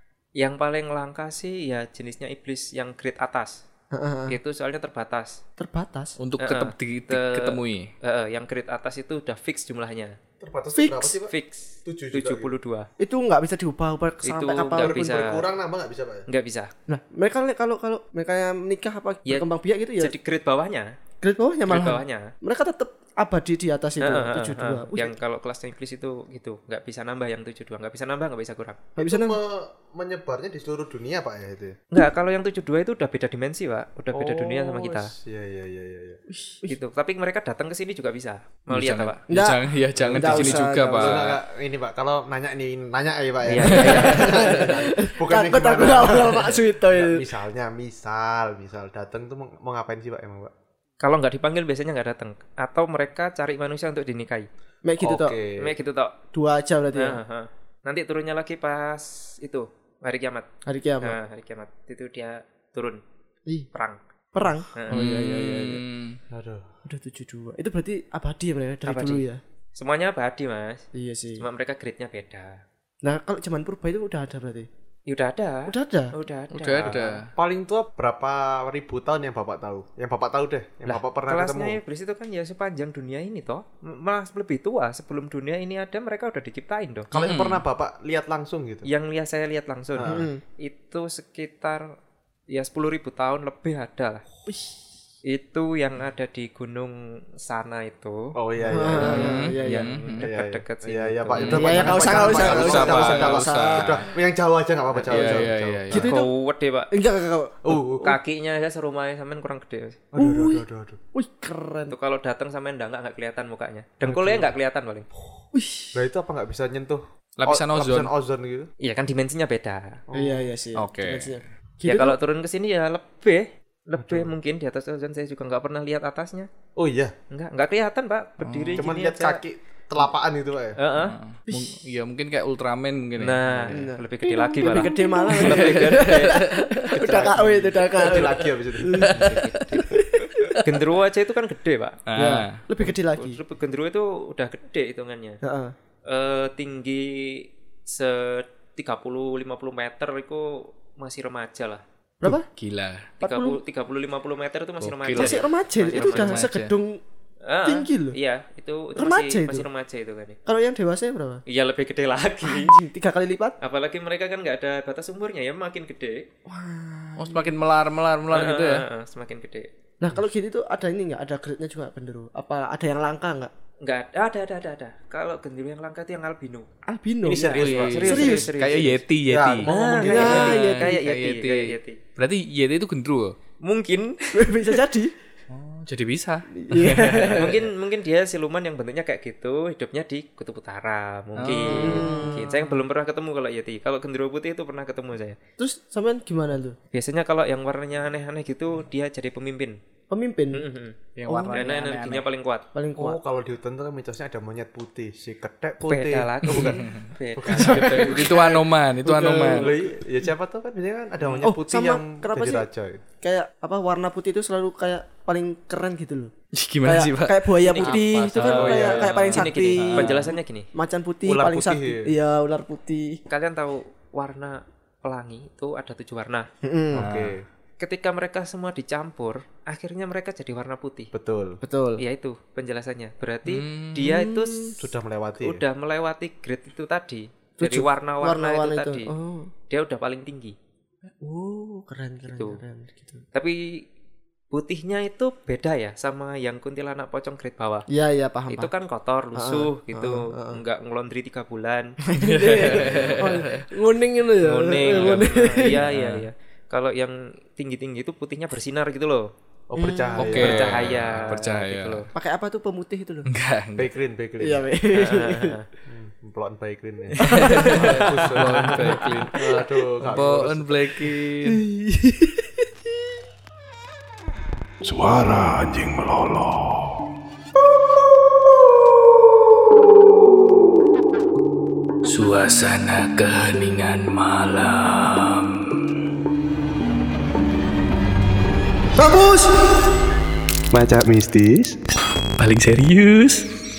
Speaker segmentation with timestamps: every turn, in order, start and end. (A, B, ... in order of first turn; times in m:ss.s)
0:00.4-0:03.6 A
0:03.9-0:04.4 B
0:04.3-0:05.4 A
0:05.6-0:06.2 B
0:06.2-0:07.9 C
0:06.4-0:10.2 A
0:10.4-0:11.3 D
0:10.7-0:11.2 B
0:11.2-0:12.9 A
0:11.8-0:12.5 D
0:13.0-0:15.4 B
0:14.2-0:15.4 A
0:14.8-0:16.2 D
0:16.3-0:16.7 A
0:16.9-0:20.1 B
0:20.0-0:21.0 A
0:21.2-0:25.2 B
0:21.6-0:22.3 A
0:24.0-0:28.8 A
0:29.0-0:29.4 B
0:29.0-0:31.8 D
0:31.9-0:35.1 A
0:34.1-0:36.2 D
0:36.3-0:36.7 B
0:36.7-0:39.2 A
0:38.7-0:41.4 C
0:39.3-0:41.3 B
0:40.0-0:50.5 D
0:43.4-0:44.5 A
0:43.6-0:47.2 B
0:43.6-0:44.2 C
0:51.0-0:54.5 A
0:54.8-0:55.4 B
0:55.0-0:55.8 D
0:55.6-0:56.1 A
0:56.3-0:57.2 B
0:56.9-1:00.5 A
1:00.6-1:01.2 B
1:01.0-1:03.0 A
1:03.7-1:04.0 A
1:04.3-1:05.8 B
1:04.7-1:05.0 A
1:04.9-1:06.2 C
1:06.3-1:06.7 D
1:06.8-1:09.4 B
1:08.8-1:10.8 A
1:10.9-1:11.4 B
1:11.4-1:12.6 A
1:13.0-1:14.7 B
1:15.1-1:17.2 A
1:15.7-1:16.1 B
1:16.5-1:17.3 C
1:17.3-1:21.8 D
1:20.9-1:27.1 A
1:27.1-1:27.6 C
1:27.1-1:28.9 D
1:28.8-1:31.9 A
1:30.0-1:30.3 D
1:30.0-1:30.4 B
1:32.5-1:34.2 A
1:34.5-1:34.7 B
1:35.2-1:42.7 A
1:38.4-1:39.2 D
1:38.7-1:40.0 B
1:39.0-1:40.3 C
1:40.2-1:46.1 D
1:41.3-1:44.1 C
1:41.4-1:44.0 B
1:44.9-1:46.9 A
1:45.1-1:46.1 C
1:45.9-1:46.3 B
1:46.9-1:47.8 B
1:47.6-1:48.2 D
1:47.8-1:50.0 A
1:50.1-1:51.0 D
1:50.2-1:51.9 B
1:51.9-1:55.1 A
1:54.0-1:54.5 D
1:55.5-1:56.0 B
1:55.9-1:58.7 D
1:57.4-1:58.1 C
1:58.8-2:00.0 A
2:00.1-2:00.5 D
2:00.1-2:02.2 B
2:00.8-2:01.4 C
2:01.8-2:06.5 A
2:04.0-2:04.3 D
2:06.8-2:07.1 D
2:07.3-2:09.4 A
2:08.4-2:08.8 C
2:08.8-2:10.8 D
2:10.8-2:11.2 A
2:11.0-2:13.8 C
2:11.5-2:11.7 B
2:13.2-2:16.4 A
2:13.7-2:20.6 B
2:15.3-2:17.2 C
2:15.4-2:16.1 D
2:16.9-2:19.4 D
2:18.9-2:20.5 C
2:19.1-2:20.0 A
2:20.6-2:22.0 A
2:22.1-2:22.6 C
2:22.1-2:23.4 B
2:23.1-2:25.4 A
2:25.4-2:25.7 B
2:26.1-2:31.8 A
2:32.2-2:32.5 B
2:32.2-2:33.1 C
2:33.2-2:36.5 A
2:33.2-2:33.6 B
2:34.8-2:36.7 C
2:35.1-2:37.0 B
2:37.4-2:40.4 A
2:37.6-2:38.2 B
2:39.0-2:39.7 B
2:40.4-2:41.4 B
2:41.5-2:42.7 A
2:42.4-2:43.6 B
2:43.6-2:46.3 A
2:46.5-2:47.5 B
2:47.2-2:48.8 C
2:48.3-2:49.7 A
2:50.0-2:53.5 B
2:53.8-2:56.7 A
2:56.9-2:57.5 B
2:57.2-2:58.2 D
2:57.3-2:59.0 A
2:57.5-3:03.3 C
2:58.0-2:58.5 B
2:59.3-3:00.6 D
2:59.6-3:02.0 A
3:00.0-3:00.9 B
3:03.6-3:04.5 A
3:04.3-3:05.1 B
3:05.5-3:07.1 C
3:06.5-3:07.6 B
3:06.7-3:15.4 A
3:11.4-3:12.5 C
3:11.7-3:12.7 B
3:15.6-3:16.8 B
3:16.9-3:19.8 A
3:20.1-3:20.7 B
3:20.5-3:21.0 A
3:21.2-3:22.2 C
3:21.3-3:21.7 B
3:21.5-3:22.7 A
3:22.7-3:23.2 B
3:23.0-3:28.5 D
3:25.8-3:28.2 A
3:26.5-3:29.7 C
3:27.6-3:30.1 B
3:29.2-3:33.0 D
3:31.2-3:31.5 C
3:31.4-3:32.7 B
3:33.2-3:36.3 B
3:36.5-3:40.4 C
3:36.8-3:43.2 B
3:37.6-3:40.7 A
3:38.4-3:39.0 D
3:41.2-3:42.1 D
3:43.3-3:46.5 A
3:46.6-3:47.1 B
3:46.9-3:47.4 D
3:46.9-3:47.4 C
3:47.8-3:51.1 A
3:51.1-3:51.6 D
3:51.6-3:52.0 B
3:52.0-3:54.8 A
3:53.4-3:54.1 C
3:54.0-3:54.8 B
3:54.8-3:55.6 D
3:55.4-3:59.1 A
3:57.6-3:59.5 B
3:59.7-4:00.6 A
4:01.2-4:03.2 B
4:02.3-4:02.6 A
4:03.3-4:03.8 A
4:04.5-4:07.9 A
4:07.9-4:08.7 B
4:08.5-4:12.0 A
4:09.3-4:10.6 B
4:12.0-4:15.8 B
4:12.2-4:13.6 C
4:12.6-4:13.1 A
4:14.4-4:19.3 A
4:15.7-4:16.3 C
4:19.7-4:21.2 D
4:19.8-4:20.3 B
4:20.2-4:22.0 C
4:20.3-4:22.1 A
4:22.1-4:23.3 B
4:23.3-4:23.9 C
4:23.8-4:24.6 D
4:24.4-4:25.6 B
4:24.9-4:25.7 A
4:25.9-4:31.1 D
4:27.1-4:31.6 C
4:27.2-4:30.2 B
4:31.4-4:33.2 B
4:34.8-4:36.9 E
4:42.0-4:45.9 C
4:49.0-4:49.6 B
4:50.7-4:51.8 D
4:52.4-4:53.5 C